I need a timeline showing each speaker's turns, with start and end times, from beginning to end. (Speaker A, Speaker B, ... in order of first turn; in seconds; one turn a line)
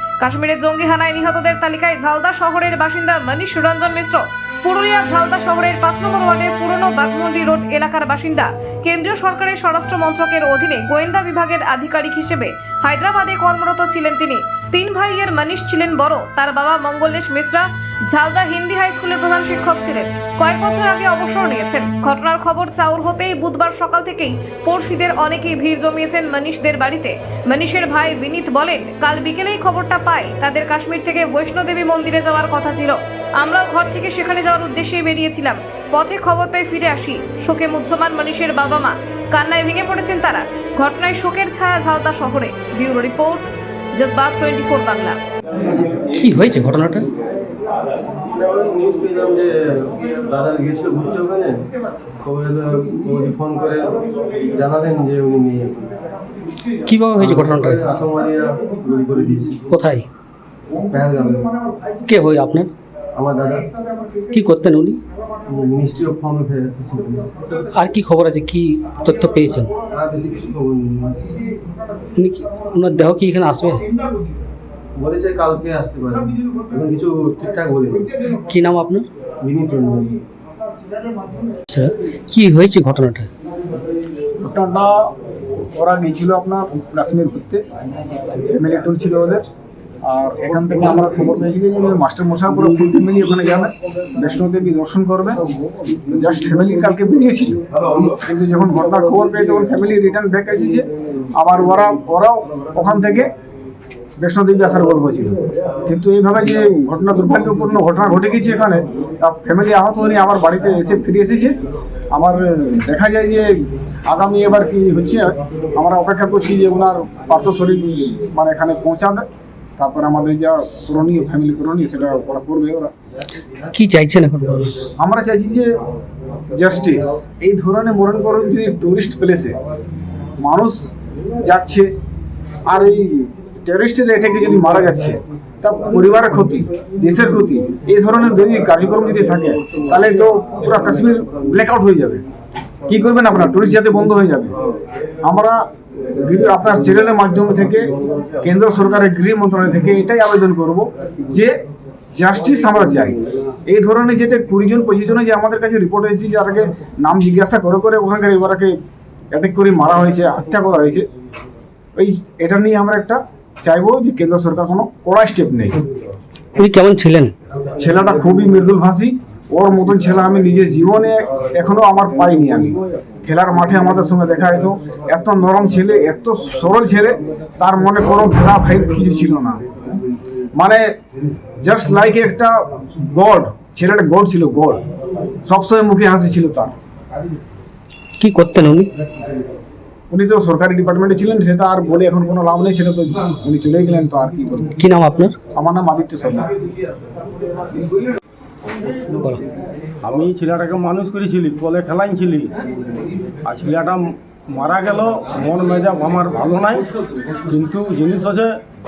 Speaker A: 0.2-45.2
Speaker B: 46.1-47.1
Speaker C: 48.3-51.6
Speaker C: 52.2-56.0
Speaker B: 56.9-57.8
Speaker C: 57.1-59.8
Speaker B: 59.7-60.1
Speaker C: 60.9-61.5
Speaker D: 61.6-62.0
Speaker B: 62.1-62.7
Speaker C: 63.1-63.7
Speaker D: 63.7-64.4
Speaker B: 64.3-65.0
Speaker C: 65.5-67.3
Speaker B: 67.7-69.7
Speaker C: 69.9-71.4
Speaker B: 72.2-73.8
Speaker D: 73.7-74.4
Speaker C: 75.0-78.1
Speaker D: 78.0-78.5
Speaker B: 78.4-79.1
Speaker C: 79.4-80.2
Speaker D: 81.0-81.4
Speaker B: 81.7-83.3
Speaker D: 84.4-85.1
Speaker D: 85.7-87.6
Speaker D: 88.3-89.4
Speaker D: 90.0-95.4
Speaker D: 96.1-100.8
Speaker D: 101.4-103.3
Speaker D: 104.2-111.6
Speaker D: 112.1-113.5
Speaker D: 114.1-119.2
Speaker D: 119.8-122.9
Speaker B: 123.7-124.7
Speaker D: 125.0-125.7
Speaker D: 126.6-129.6
Speaker D: 130.4-130.9
Speaker D: 131.4-131.9
Speaker D: 132.7-142.2
Speaker D: 142.9-144.5
Speaker D: 145.2-145.6
Speaker D: 146.2-147.8
Speaker D: 148.4-151.5
Speaker D: 152.2-158.8
Speaker D: 159.3-161.0
Speaker D: 161.9-165.8
Speaker B: 166.6-167.3
Speaker D: 167.8-179.6
Speaker D: 180.6-180.8
Speaker D: 181.6-184.8
Speaker D: 185.4-186.7
Speaker B: 188.2-188.9
Speaker D: 190.1-194.8
Speaker B: 194.8-195.3
Speaker D: 195.5-196.5
Speaker B: 199.1-199.4
Speaker E: 200.0-202.5
Speaker E: 203.4-206.9
Speaker E: 207.5-208.5